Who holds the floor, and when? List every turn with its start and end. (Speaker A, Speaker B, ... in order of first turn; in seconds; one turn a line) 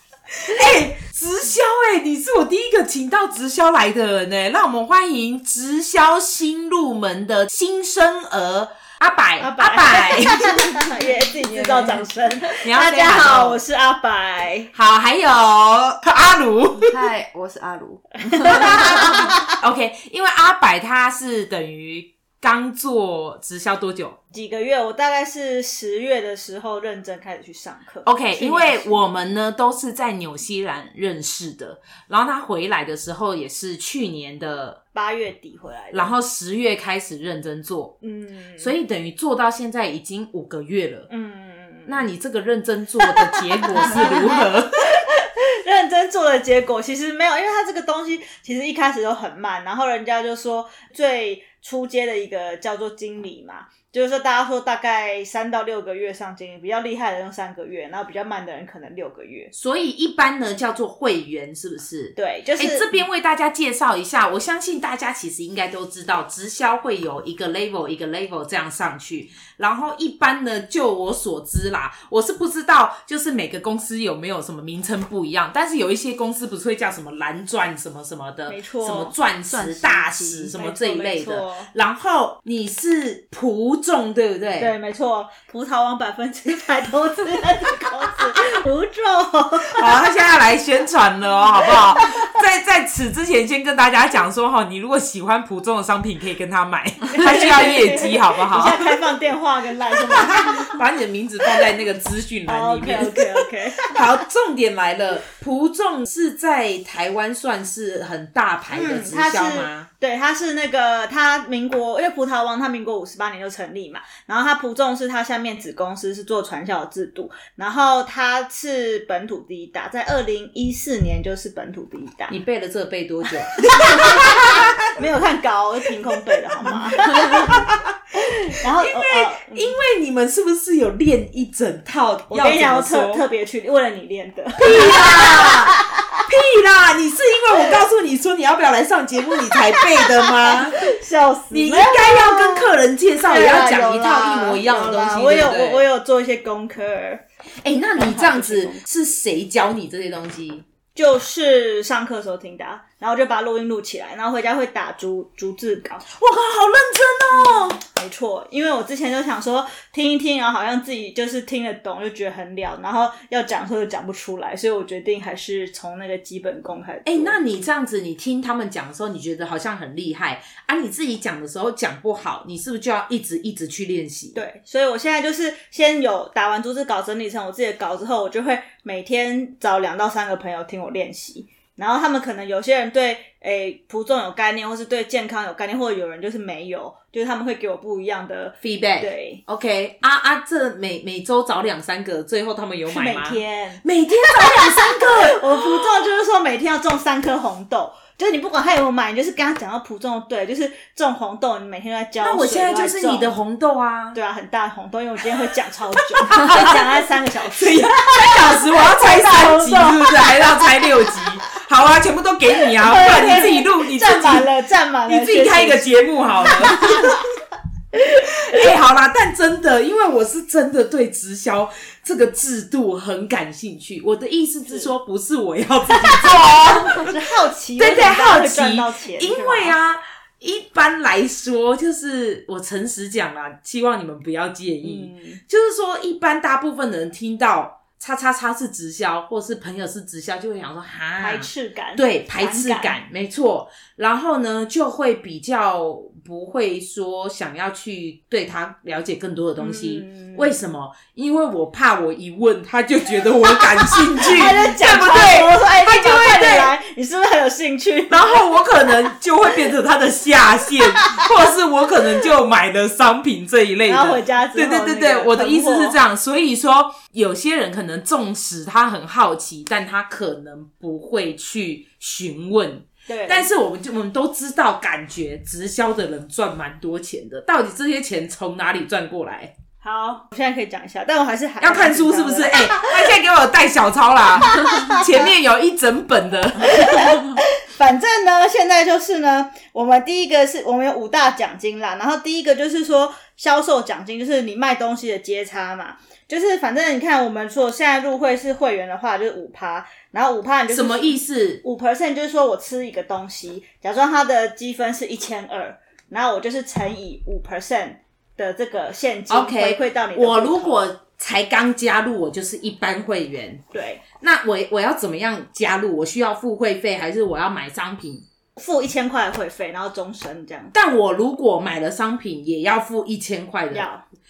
Speaker A: 0.4-10.8
Speaker B: 9.4-14.7
Speaker C: 11.4-12.1
Speaker A: 12.6-13.6
Speaker A: 14.7-17.1
Speaker C: 16.7-19.3
Speaker B: 18.3-19.5
Speaker A: 18.5-24.2
Speaker B: 24.3-29.3
Speaker A: 28.0-34.8
Speaker B: 34.9-36.1
Speaker A: 35.9-38.0
Speaker B: 38.0-38.7
Speaker A: 38.6-41.1
Speaker B: 41.1-42.1
Speaker A: 41.9-44.9
Speaker B: 43.0-59.5
Speaker A: 59.5-84.7
Speaker B: 62.1-62.9
Speaker B: 78.5-81.7
Speaker B: 84.6-89.9
Speaker A: 89.7-98.9
Speaker B: 97.1-100.8
Speaker A: 99.9-109.9
Speaker B: 102.5-104.0
Speaker B: 108.7-122.3
Speaker A: 122.3-124.8
Speaker B: 123.6-129.8
Speaker A: 126.7-127.8
Speaker A: 128.8-133.2
Speaker B: 132.3-136.2
Speaker A: 134.6-140.9
Speaker B: 139.8-142.7
Speaker A: 141.5-145.9
Speaker B: 143.3-147.2
Speaker A: 147.6-150.7
Speaker B: 148.0-148.8
Speaker B: 150.9-156.1
Speaker A: 156.1-157.8
Speaker B: 157.9-167.4
Speaker A: 167.1-174.4
Speaker B: 174.3-189.4
Speaker A: 188.6-196.1
Speaker B: 192.9-203.3
Speaker A: 202.2-204.2
Speaker B: 204.1-210.9
Speaker A: 206.1-206.8
Speaker A: 207.5-214.5
Speaker B: 212.8-217.2
Speaker A: 215.1-217.2
Speaker B: 217.9-218.6
Speaker A: 218.4-227.2
Speaker B: 226.6-229.8
Speaker A: 227.8-256.7
Speaker B: 234.8-235.4
Speaker B: 241.2-243.0
Speaker B: 249.6-250.6
Speaker B: 253.8-258.4
Speaker A: 258.1-279.5
Speaker B: 263.9-266.0
Speaker B: 273.1-273.5
Speaker B: 279.8-283.1
Speaker A: 281.6-287.4
Speaker B: 284.6-285.1
Speaker B: 286.7-310.8
Speaker A: 300.7-301.6
Speaker A: 309.3-313.6
Speaker B: 313.7-314.0
Speaker A: 314.2-318.2
Speaker B: 318.6-320.7
Speaker A: 320.7-323.9
Speaker B: 323.7-324.0